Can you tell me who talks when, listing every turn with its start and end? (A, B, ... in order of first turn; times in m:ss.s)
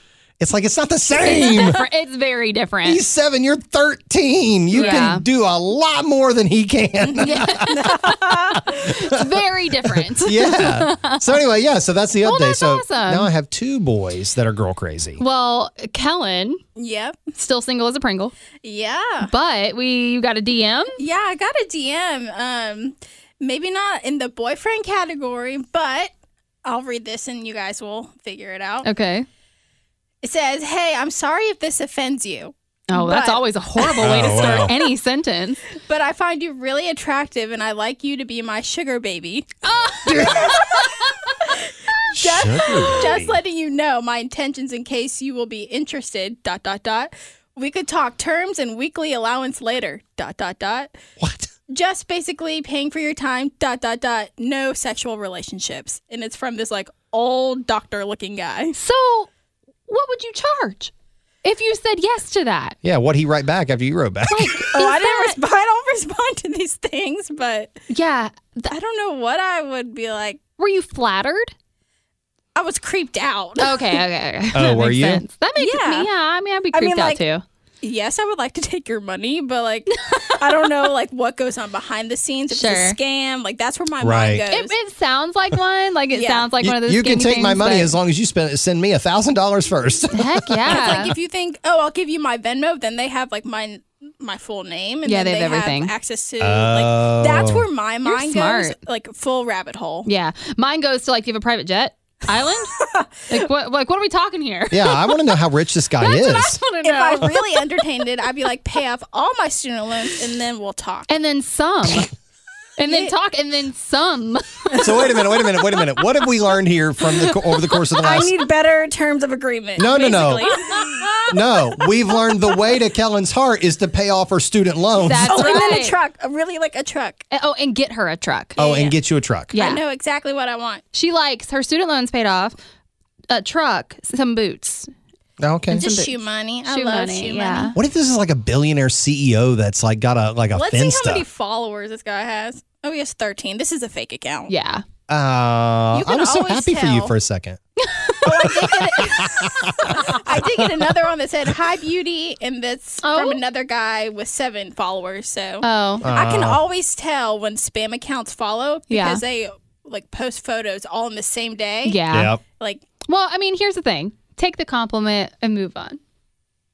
0:00.4-0:01.8 A
0:01.2-0:03.0 B
0:02.8-0:07.9 A
0:04.7-0:05.1 C
0:04.7-0:05.2 B
0:07.0-0:08.6 C
0:07.2-0:11.4 B
0:08.5-0:15.2 A
0:12.2-0:13.3 B
0:15.2-0:16.6 B
0:16.8-0:17.2 C
0:17.4-0:18.3 B
0:18.6-0:19.3 C
0:19.2-0:21.0 B
0:21.0-0:26.1 C
0:26.6-0:28.9 C
0:28.8-0:29.3 B
0:30.2-0:34.7 C
0:32.9-0:35.6 B
0:34.0-0:34.7 A
0:35.8-0:50.9 C
0:39.6-0:41.4 B
0:40.0-0:40.7 A
0:42.1-0:43.4 A
0:51.2-0:51.5 A
0:51.7-0:58.8 C
0:58.8-0:59.3 B
0:59.9-1:00.9 B
1:01.4-1:02.8 B
1:02.8-1:04.6 A
1:04.3-1:05.4 B
1:04.6-1:07.8 C
1:07.9-1:08.7 B
1:08.6-1:10.4 C
1:10.6-1:11.5 B
1:12.5-1:14.0 C
1:13.6-1:17.4 B
1:14.5-1:15.2 A
1:15.6-1:16.1 C
1:16.7-1:17.2 C
1:17.8-1:24.7 C
1:20.0-1:20.5 B
1:22.5-1:23.0 B
1:24.0-1:24.4 A
1:24.5-1:27.9 B
1:26.1-1:26.5 C
1:26.6-1:31.1 A
1:30.1-1:31.1 B
1:30.6-1:40.1 C
1:35.0-1:35.9 B
1:36.4-1:37.6 A
1:38.0-1:38.8 B
1:40.0-1:42.8 B
1:42.7-1:43.1 C
1:43.3-1:45.1 B
1:44.7-1:46.6 A
1:46.0-1:47.7 B
1:46.8-1:51.1 C
1:51.1-1:52.1 B
1:52.8-1:55.1 B
1:52.8-1:53.1 C
1:54.7-1:55.1 C
1:54.8-1:58.3 A
1:57.9-2:02.5 C
1:59.8-2:00.5 A
2:00.4-2:01.0 B
2:01.3-2:05.6 A
2:05.0-2:06.0 B
2:05.1-2:07.2 C
2:07.3-2:08.6 B
2:08.6-2:09.0 C
2:08.6-2:09.5 A
2:09.5-2:09.8 B
2:09.5-2:10.8 C
2:10.9-2:12.6 B
2:13.3-2:14.9 B
2:15.4-2:15.8 A
2:15.7-2:16.2 B
2:15.7-2:17.7 C
2:16.7-2:17.8 B
2:17.7-2:21.2 A
2:20.5-2:24.5 C
2:24.5-2:24.8 B
2:25.1-2:27.6 A
2:25.9-2:27.1 C
2:27.8-2:30.2 B
2:28.2-2:42.8 C
2:28.5-2:30.9 A
2:33.0-2:33.4 B
2:35.6-2:36.1 B
2:36.0-2:36.6 A
2:38.9-2:39.2 B
2:41.8-2:42.4 B
2:42.1-2:42.4 A
2:43.0-2:46.0 B